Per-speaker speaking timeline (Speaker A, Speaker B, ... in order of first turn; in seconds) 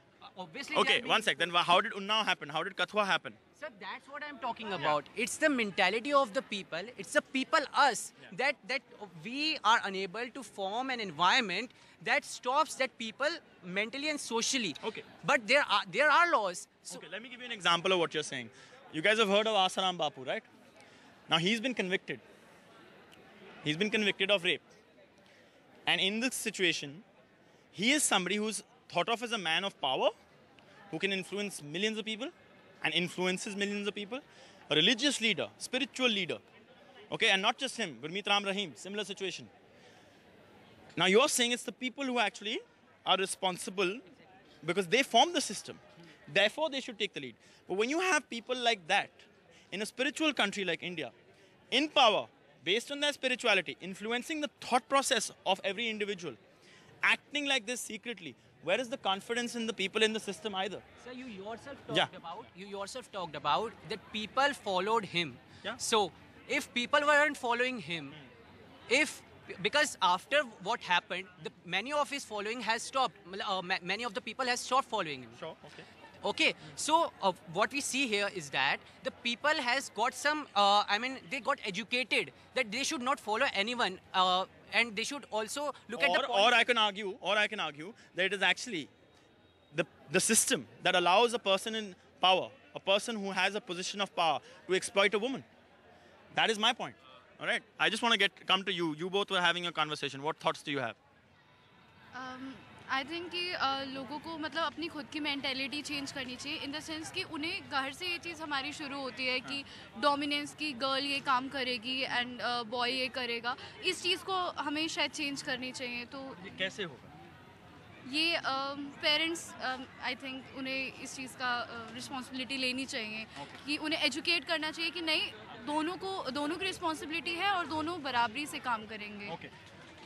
Speaker A: 0.2-1.5, 3.6-17.0, 61.0-68.2, 68.9-75.4, 76.2-86.5
Speaker B: 0.7-3.4, 14.8-15.1, 16.9-20.5, 21.3-22.2, 23.6-24.6, 25.9-27.0, 27.7-30.1, 30.9-36.4, 37.1-39.5, 41.0-44.0, 44.6-51.1, 51.7-56.4, 57.0-60.8, 75.4-75.9, 86.0-88.9, 89.7-95.5, 96.3-101.0, 116.4-117.1
Speaker C: 102.1-116.4, 118.1-129.4